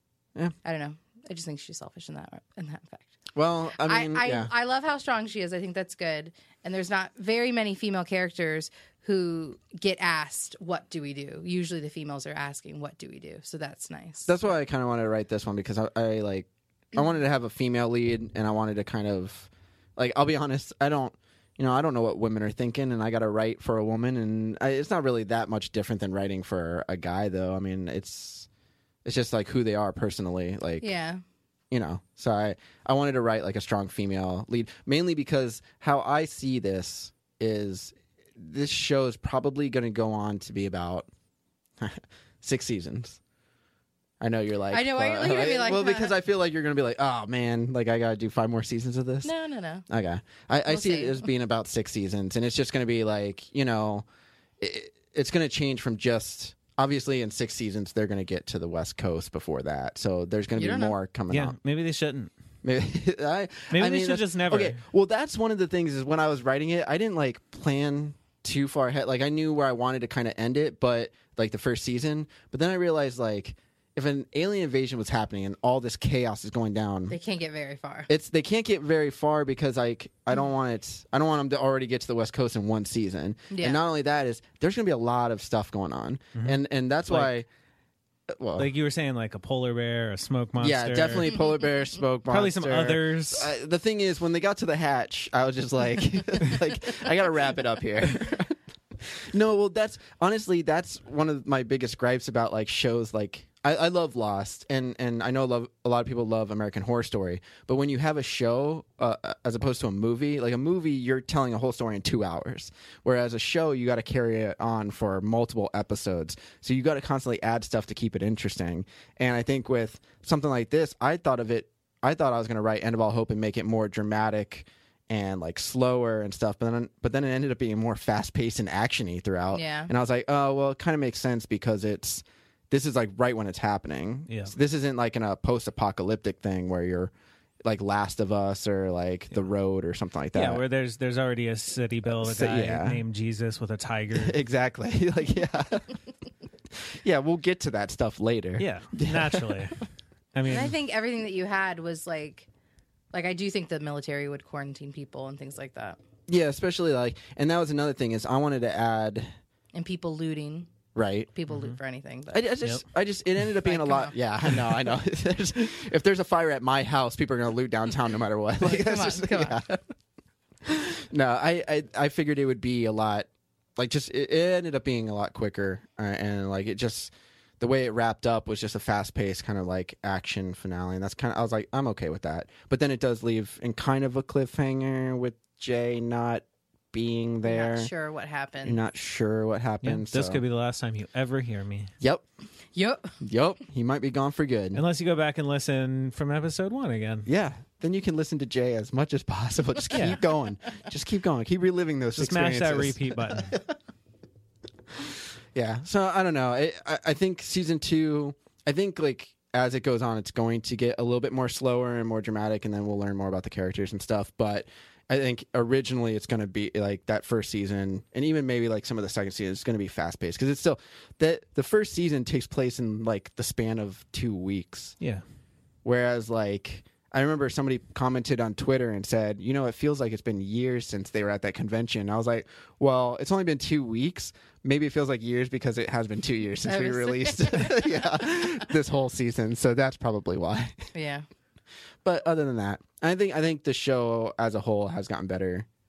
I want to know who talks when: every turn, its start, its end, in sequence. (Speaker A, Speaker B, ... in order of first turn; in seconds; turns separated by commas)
Speaker A: 0.6-3.1, Speaker B: 3.3-4.5, Speaker A: 3.8-14.5, Speaker B: 14.2-28.5, Speaker B: 29.0-30.9, Speaker A: 30.8-31.2, Speaker B: 31.7-41.1, Speaker B: 41.8-43.2, Speaker B: 44.2-49.3, Speaker A: 44.7-46.1, Speaker A: 49.2-49.8, Speaker B: 49.9-54.0, Speaker A: 50.7-51.3, Speaker B: 54.6-61.6, Speaker A: 60.5-61.0, Speaker C: 61.3-62.3, Speaker B: 62.6-77.2, Speaker C: 63.7-64.8, Speaker A: 77.1-78.1, Speaker B: 78.1-87.5, Speaker A: 83.5-83.8, Speaker C: 86.3-87.4, Speaker B: 88.3-88.7, Speaker C: 88.6-91.4, Speaker B: 90.6-137.1, Speaker C: 92.3-93.5, Speaker A: 129.5-129.9, Speaker C: 134.3-134.5, Speaker B: 137.6-140.6, Speaker C: 140.3-144.4, Speaker B: 142.1-143.0, Speaker B: 144.1-146.0, Speaker B: 146.8-149.7, Speaker C: 148.6-149.8, Speaker C: 150.3-150.7, Speaker A: 150.5-152.5, Speaker A: 153.1-156.0, Speaker B: 156.3-159.3, Speaker A: 159.7-160.7, Speaker B: 160.9-161.3, Speaker A: 161.3-162.4, Speaker C: 161.5-161.8, Speaker B: 162.3-169.8, Speaker A: 163.6-164.1, Speaker A: 168.6-169.6, Speaker B: 170.6-187.9, Speaker A: 187.4-188.8, Speaker B: 188.6-190.4, Speaker C: 189.8-191.9, Speaker A: 192.7-193.1, Speaker B: 193.2-194.8, Speaker C: 194.7-197.3, Speaker B: 197.2-203.6, Speaker C: 199.9-200.2, Speaker C: 202.2-203.6, Speaker B: 205.0-224.9, Speaker B: 225.8-240.9, Speaker A: 236.6-238.1, Speaker A: 240.9-241.2, Speaker B: 242.0-245.7